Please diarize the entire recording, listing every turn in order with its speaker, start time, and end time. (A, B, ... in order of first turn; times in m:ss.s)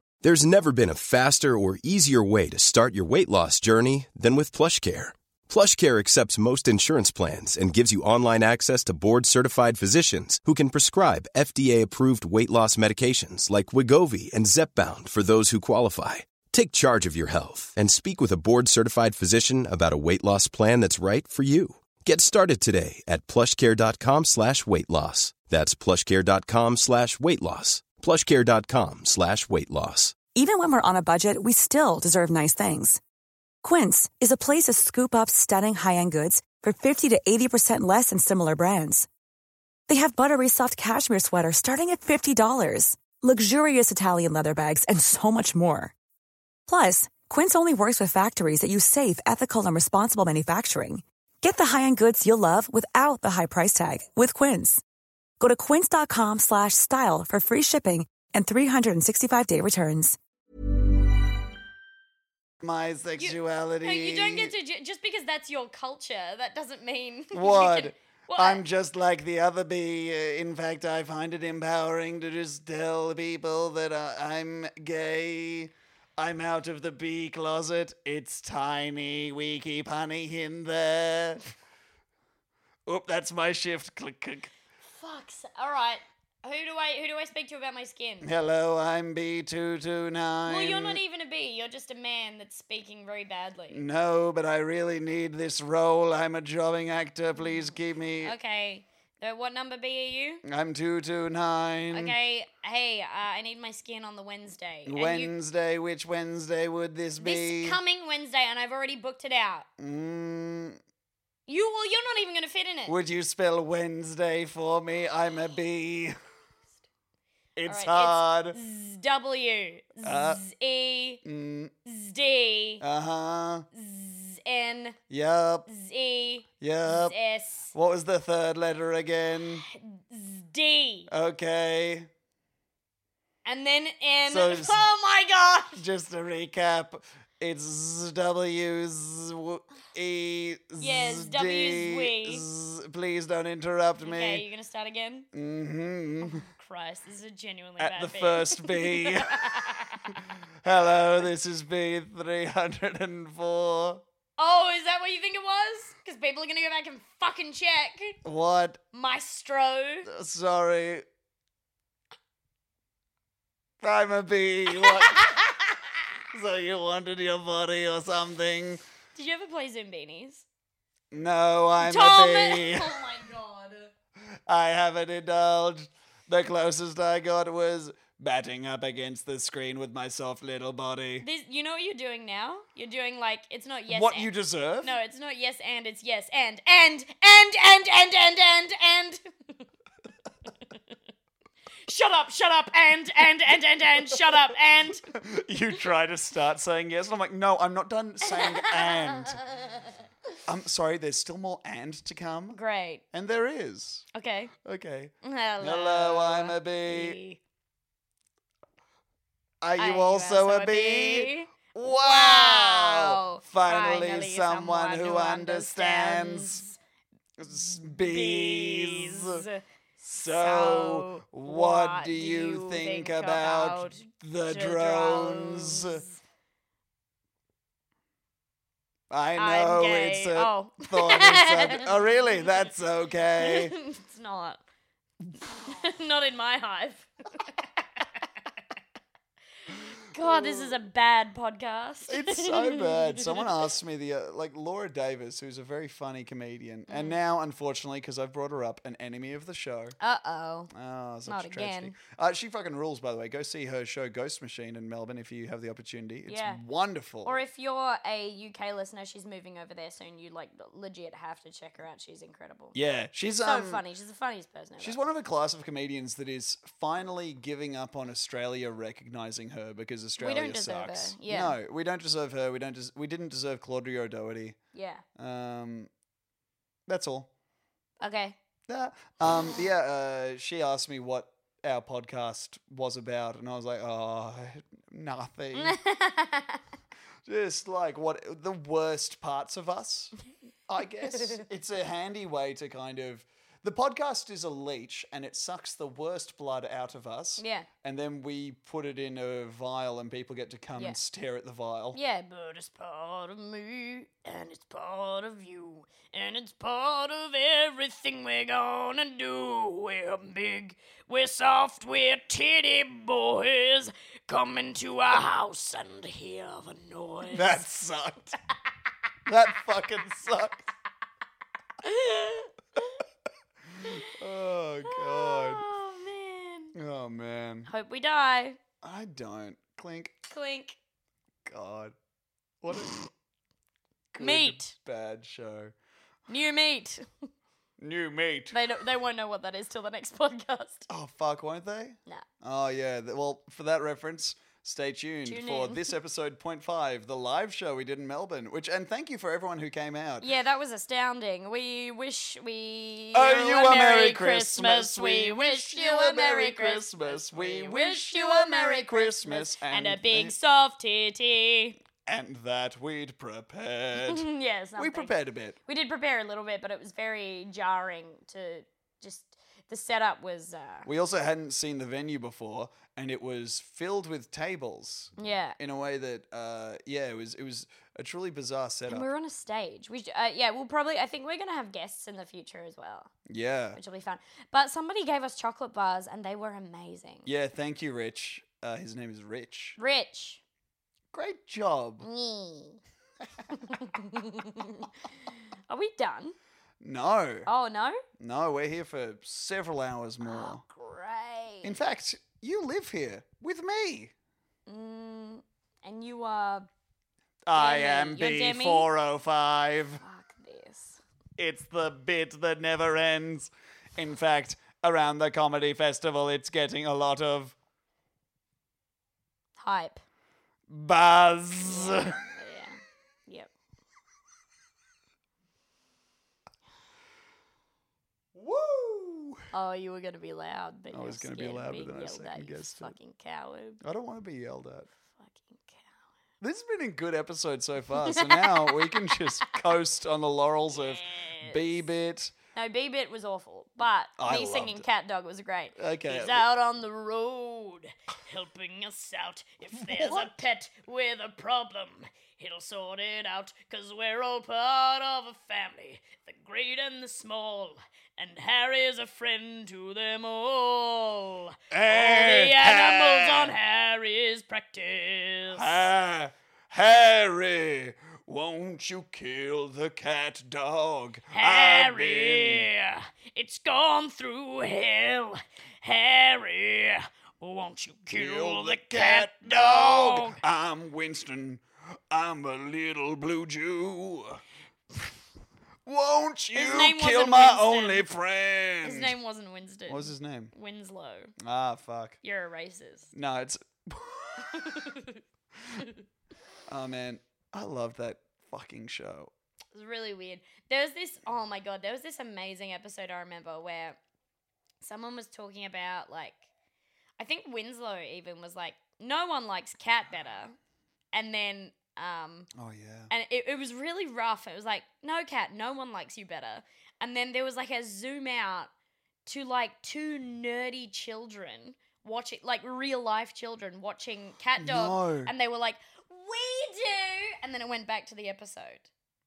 0:00.2-0:30.2 A
0:30.4-0:33.0 B
0:33.6-0:39.1 B
0:39.9-0:45.9 B
0:46.7-0:54.8 B
0:55.4-1:00.2 B
1:02.6-1:04.5 C
1:03.2-1:08.6 D
1:07.3-1:21.4 C
1:22.9-1:24.5 C
1:25.0-1:28.3 D
1:28.2-1:31.0 C
1:30.5-1:33.8 D
1:33.7-1:38.4 C
1:37.4-1:37.7 D
1:38.2-1:40.4 D
1:40.4-1:42.2 C
1:41.9-1:45.3 D
1:44.9-1:47.8 C
1:47.2-1:49.7 D
1:49.8-1:50.8 C
1:51.5-1:53.0 D
1:52.9-1:56.2 C
1:57.6-1:58.6 C
1:57.7-2:01.2 D
2:00.0-2:00.4 C
2:01.2-2:01.7 C
2:01.8-2:02.8 D
2:02.8-2:03.7 C
2:03.7-2:05.0 D
2:05.1-2:05.7 C
2:05.7-2:07.7 D
2:06.6-2:07.2 C
2:07.7-2:09.6 C
2:09.7-2:11.1 D
2:11.1-2:12.1 C
2:13.4-2:15.8 D
2:14.3-2:14.9 C
2:15.8-2:24.4 C
2:20.8-2:22.4 D
2:24.0-2:25.3 D
2:25.3-2:26.4 C
2:26.2-2:30.2 D
2:27.8-2:34.0 C
2:34.4-2:38.2 D
2:38.2-2:38.8 C
2:38.9-2:40.1 D
2:40.1-2:41.0 C
2:43.8-2:45.6 C
2:44.7-2:45.4 D
2:46.3-2:48.8 C
2:49.2-2:50.4 D
2:51.1-2:53.0 C
2:51.8-2:53.9 D
2:54.5-3:01.3 C
3:01.2-3:04.3 D
3:03.9-3:05.0 C
3:04.8-3:09.6 D
3:11.9-3:15.0 D
3:15.0-3:19.4 C
3:18.3-3:19.8 D
3:20.4-3:22.6 C
3:22.5-3:23.0 D
3:23.1-3:24.1 C
3:24.1-3:24.5 D
3:24.6-3:27.2 C
3:25.2-3:27.4 D
3:29.6-3:36.6 C
3:29.8-3:36.8 D
3:37.4-3:39.4 C
3:37.6-3:39.6 D
3:40.0-3:46.0 C
3:40.2-3:46.2 D
3:49.1-3:53.8 C
3:49.4-3:52.2 D
3:53.4-3:54.6 D
3:55.4-3:57.5 D
4:00.1-4:03.5 D
4:00.2-4:00.7 C
4:02.1-4:10.0 C
4:06.9-4:07.2 D
4:10.0-4:10.7 D
4:10.7-4:17.4 C
4:11.3-4:12.0 D
4:16.3-4:16.6 D
4:17.2-4:22.8 D
4:22.7-4:23.8 C
4:23.4-4:25.0 D
4:24.8-4:34.6 C
4:30.2-4:31.6 D
4:34.7-4:35.0 D
4:35.2-4:35.9 C
4:36.9-4:37.3 C
4:38.0-4:38.4 D
4:38.7-4:45.8 C
4:45.6-4:46.6 D
4:47.3-4:50.2 C
4:50.7-5:02.0 C
4:57.4-4:57.7 D
5:01.9-5:17.6 D
5:17.3-5:18.4 C
5:19.3-5:20.7 C
5:21.8-5:23.0 D
5:23.8-5:25.6 C
5:23.8-5:24.1 D
5:24.8-5:26.8 D
5:26.8-5:27.7 C
5:27.7-5:28.6 D
5:28.8-5:30.2 C
5:30.3-5:30.8 D
5:31.5-5:32.0 C
5:32.6-5:33.0 C
5:34.1-5:35.7 C
5:34.2-5:34.7 D
5:36.3-5:37.1 D
5:37.8-5:38.6 C
5:38.5-5:40.9 D
5:40.9-5:50.3 C
5:45.2-5:45.9 D
5:50.2-6:01.8 D
5:53.1-6:00.4 C
6:02.1-6:05.6 C
6:04.0-6:05.1 D
6:05.7-6:10.9 D
6:10.9-6:19.1 C
6:15.2-6:15.6 D
6:18.9-6:23.1 D
6:23.3-6:23.8 C
6:23.8-6:27.3 D
6:27.3-6:29.8 C
6:29.8-6:30.4 D
6:31.1-6:32.1 C
6:32.0-6:32.8 D
6:33.5-6:34.9 D
6:35.7-6:36.4 D
6:36.8-6:37.5 C
6:37.5-6:38.0 D
6:38.2-6:40.6 C
6:40.2-6:41.8 D
6:41.6-6:44.1 C
6:44.7-6:46.7 D
6:47.5-6:50.0 C
6:47.5-6:48.9 D
6:50.0-6:51.0 D
6:51.4-6:57.6 C
6:59.6-7:00.0 D
7:00.7-7:02.2 C
7:01.6-7:03.5 D
7:08.4-7:09.4 C
7:09.5-7:13.8 D
7:10.9-7:13.0 C
7:13.8-7:14.9 C
7:15.1-7:15.9 D
7:16.4-7:22.3 C
7:18.1-7:19.6 D
7:20.7-7:21.8 D
7:22.6-7:45.8 D
7:24.2-7:24.9 C
7:25.8-7:26.5 C
7:29.8-7:30.4 C
7:41.7-7:43.6 C
7:45.5-7:52.7 C
7:51.3-8:00.4 D
7:58.1-8:04.4 C
8:05.9-8:09.2 C
8:06.5-8:08.1 D
8:08.8-8:11.3 D
8:09.9-8:10.5 C
8:11.4-8:12.2 C
8:12.2-8:13.1 D
8:13.1-8:15.0 C
8:14.5-8:15.2 D
8:16.7-8:19.3 C
8:19.7-8:24.0 D
8:24.8-8:26.4 D
8:27.2-8:30.6 D
8:31.1-8:32.5 D
8:32.6-8:33.1 C
8:33.1-8:38.7 D
8:39.3-8:48.9 D
8:44.6-8:45.3 C